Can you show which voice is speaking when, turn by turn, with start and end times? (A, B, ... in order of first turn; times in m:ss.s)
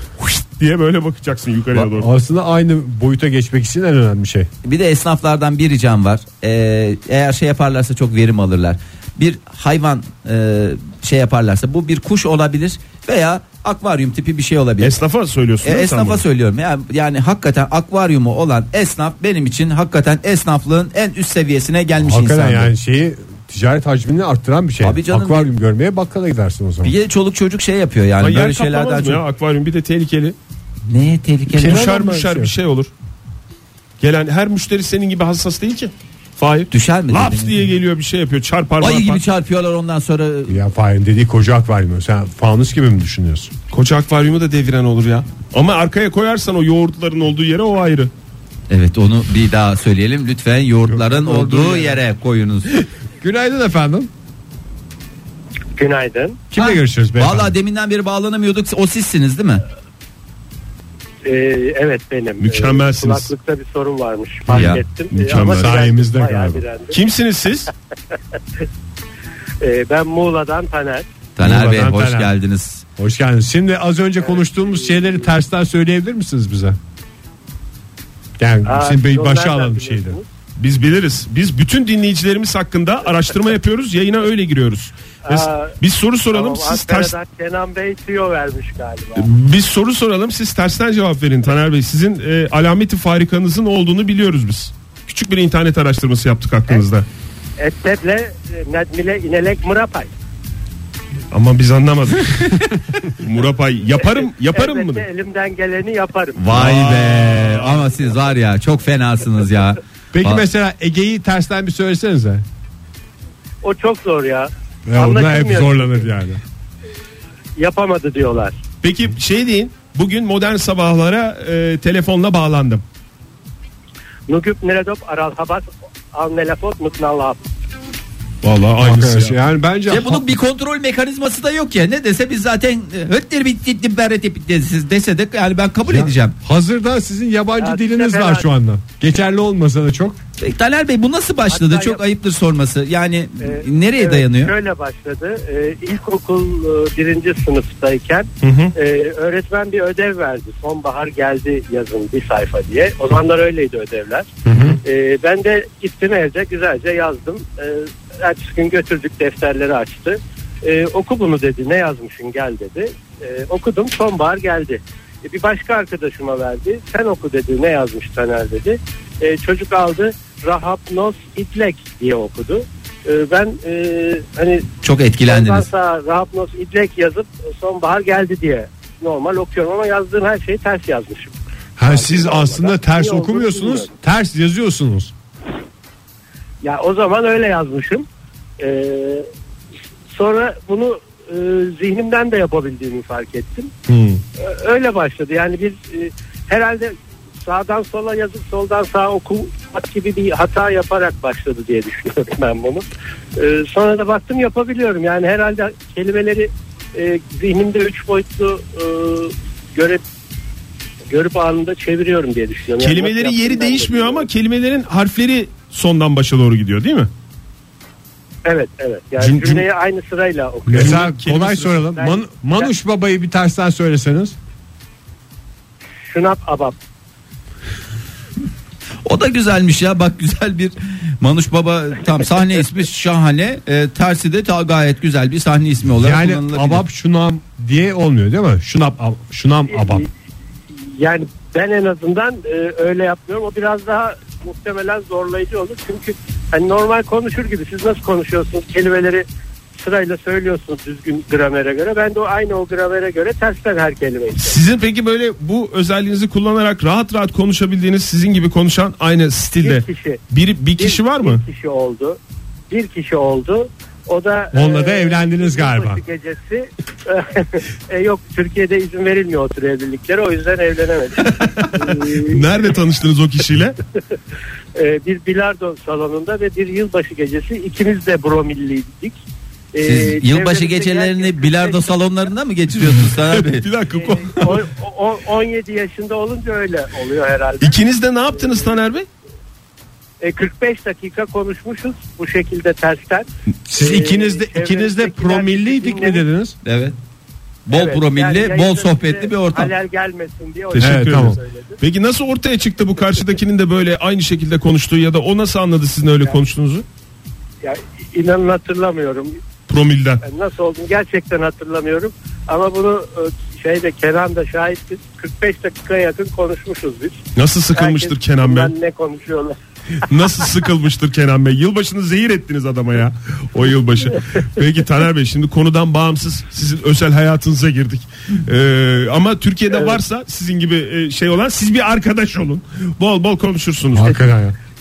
0:00.2-0:02.1 A
0:01.7-0:04.5 B
0:04.6-0:14.9 C
0:14.8-0:16.2 A
0:15.6-0:22.7 C
0:22.0-0:26.9 B
0:24.8-0:25.5 C
0:26.8-0:29.2 C
0:28.2-0:30.4 A
0:30.9-0:31.9 C
0:31.5-0:32.5 B
0:31.6-0:32.9 A
0:34.0-0:39.2 A
0:36.7-0:37.7 C
0:38.8-0:40.6 C
0:40.5-0:43.5 B
0:43.7-0:48.1 A
0:48.7-0:52.8 C
0:50.9-0:52.0 B
0:53.2-0:54.1 B
0:55.8-0:56.4 D
0:56.5-0:57.5 B
0:56.6-0:59.6 C
1:01.2-1:07.0 D
1:02.4-1:03.3 A
1:04.5-1:04.8 B
1:04.5-1:04.8 C
1:05.1-1:05.7 A
1:05.3-1:06.6 B
1:06.9-1:07.7 A
1:09.6-1:11.1 D
1:11.4-1:12.8 C
1:11.4-1:12.3 B
1:13.0-1:16.8 B
1:14.2-1:15.3 D
1:18.4-1:20.2 B
1:18.6-1:20.2 D
1:20.6-1:27.1 A
1:25.2-1:25.8 D
1:26.3-1:29.3 D
1:29.2-1:37.0 A
1:37.6-1:40.1 D
1:41.3-1:42.7 A
1:43.2-1:45.0 A
1:44.0-1:46.4 D
1:46.4-1:50.4 C
1:46.5-1:47.8 A
1:50.1-1:52.4 B
1:53.6-1:56.1 D
1:54.9-1:56.4 B
1:57.6-1:58.6 D
1:58.8-2:02.8 A
2:04.3-2:07.4 D
2:08.4-2:09.4 A
2:08.8-2:10.2 B
2:09.9-2:16.4 C
2:15.9-2:20.2 B
2:17.6-2:18.4 D
2:20.4-2:24.5 C
2:21.5-2:22.0 D
2:23.4-2:34.3 D
2:28.4-2:28.7 A
2:34.4-2:34.8 B
2:34.8-2:54.7 D
2:54.8-2:55.6 C
2:55.2-3:03.9 D
3:01.8-3:05.1 B
3:06.6-3:08.1 D
3:08.6-3:09.3 D
3:10.1-3:13.7 D
3:13.9-3:14.2 A
3:14.4-3:22.8 D
3:23.4-3:30.0 D
3:31.1-3:34.3 D
3:32.8-3:37.1 A
3:38.4-3:41.0 D
3:39.2-3:39.6 A
3:40.7-3:41.9 A
3:40.7-3:44.4 B
3:41.9-3:42.7 D
3:46.1-3:46.8 D
3:49.0-3:56.8 C
3:56.0-4:00.0 B
3:59.7-4:00.1 D
4:00.9-4:09.2 D
4:09.8-4:14.6 D
4:14.3-4:21.4 A
4:19.6-4:20.2 D
4:20.8-4:22.2 D
4:22.7-4:32.5 D
4:24.5-4:26.0 B
4:31.3-4:33.8 A
4:34.7-4:39.2 D
4:39.7-4:41.9 D
4:39.8-4:43.7 C
4:43.1-4:44.6 A
4:43.9-4:47.8 D
4:47.6-4:49.1 A
4:50.2-4:56.2 D
4:53.7-4:56.6 B
4:56.6-4:57.0 C
4:57.7-4:59.7 C
4:57.7-5:01.8 D
5:00.7-5:06.8 A
5:00.8-5:01.4 B
5:07.6-5:09.4 D
5:09.7-5:10.2 A
5:10.2-5:17.2 D
5:17.4-5:18.7 A
5:17.7-5:19.6 D
5:20.0-5:34.1 A
5:29.7-5:30.0 D
5:33.9-5:34.5 B